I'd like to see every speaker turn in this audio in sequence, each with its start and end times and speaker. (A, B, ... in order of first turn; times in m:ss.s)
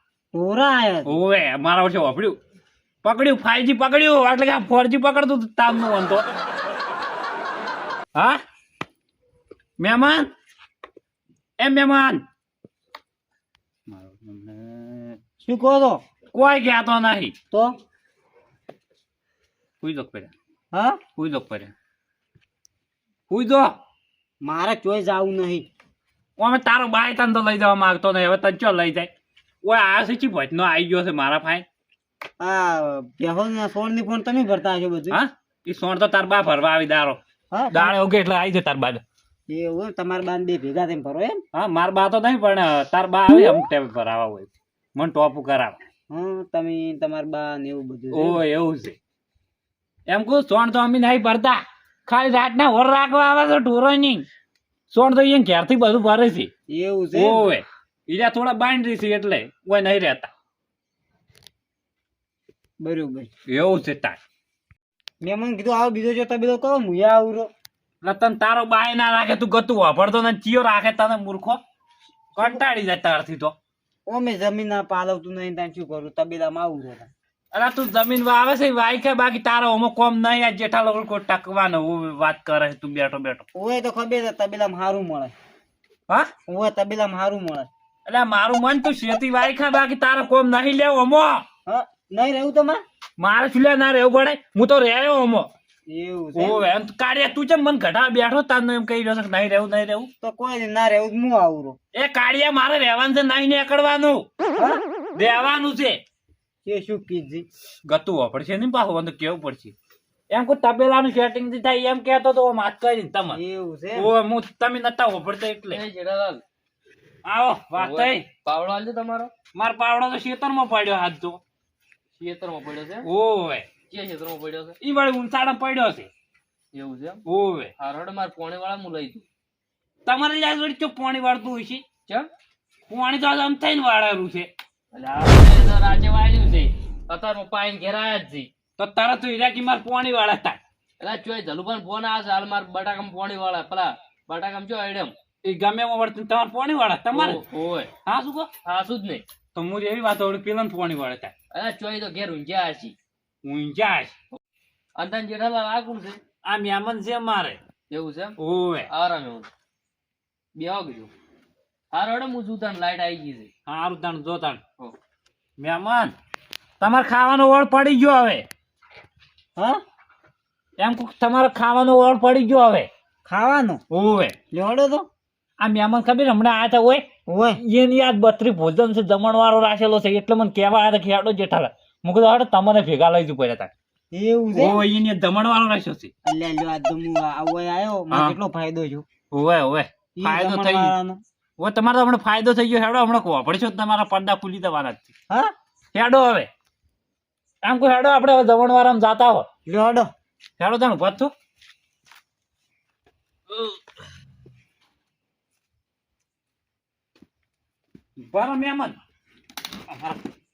0:00.3-0:01.1 A
0:01.0-0:02.3 B
0:03.0-0:06.2 B
0:09.8-0:10.3 B
0:11.6-0:12.2 B
0:13.9-0:15.2 B
0:15.4-0:16.0 A
0:16.3-0:17.3 B
0:19.8-0:20.3 B
0:20.7-0:21.0 A
0:21.2-0:21.7 B
0:23.3-0:23.7 B
0:24.4-0:25.6 A
0:26.4-0:29.1 B
0:29.6-0:31.6 B
0:32.4-0:35.2 A
0:35.1-0:37.2 B
0:37.5-0:37.9 A
0:37.7-0:39.0 B
0:39.5-0:41.4 A
0:41.5-0:45.8 B
0:46.1-0:48.4 A
0:48.1-0:49.0 B
0:50.1-0:54.2 B
0:54.9-0:56.5 B
0:56.7-0:57.4 A
0:57.1-1:00.3 B
1:02.8-1:03.3 A
1:03.5-1:04.2 B
1:05.2-1:07.5 A
1:08.0-1:11.6 B
1:12.3-1:13.5 B
1:14.1-1:17.1 A
1:17.5-1:23.4 B
1:23.5-1:25.3 A
1:26.5-1:27.7 A
1:28.1-1:31.4 B
1:31.7-1:32.8 A
1:33.2-1:35.5 B
1:35.9-1:36.6 A
1:36.3-1:40.1 B
1:40.2-1:41.8 A
1:41.9-1:44.2 B
1:44.6-1:44.8 A
1:45.1-1:46.0 B
1:46.6-1:47.4 A
1:47.8-1:49.7 B
1:50.3-1:53.4 B
1:53.3-1:54.1 A
1:54.0-1:55.8 B
1:55.7-1:56.4 C
1:57.2-1:58.3 B
1:57.7-1:59.3 C
1:59.5-2:01.4 B
2:02.2-2:03.1 C
2:03.0-2:03.6 B
2:03.9-2:04.8 C
2:04.8-2:06.1 B
2:06.7-2:07.2 C
2:07.2-2:07.7 B
2:07.8-2:09.2 C
2:10.0-2:11.8 B
2:12.9-2:14.5 B
2:14.9-2:18.5 C
2:18.8-2:20.6 B
2:21.0-2:25.1 C
2:25.4-2:27.4 B
2:27.1-2:27.9 C
2:28.0-2:28.5 B
2:28.6-2:29.2 C
2:29.5-2:31.3 B
2:31.5-2:32.9 C
2:33.4-2:34.1 B
2:35.0-2:36.2 C
2:36.4-2:37.6 B
2:37.9-2:38.4 C
2:38.4-2:38.9 B
2:38.9-2:39.5 C
2:40.6-2:41.1 C
2:41.9-2:43.5 C
2:43.6-2:44.6 B
2:45.6-2:46.1 B
2:46.8-2:48.4 B
2:50.8-2:52.9 B
2:53.2-2:53.8 A
2:53.9-2:54.3 B
2:54.5-2:55.1 A
2:55.6-2:57.0 B
2:57.3-2:57.6 A
2:57.6-3:03.7 B
3:04.1-3:04.8 A
3:04.5-3:06.1 B
3:06.2-3:09.0 A
3:09.3-3:10.9 B
3:10.2-3:11.2 A
3:11.6-3:15.1 B
3:15.9-3:16.5 B
3:17.6-3:19.4 B
3:19.7-3:20.1 A
3:20.6-3:21.3 B
3:28.2-3:29.0 B
3:29.9-3:30.2 B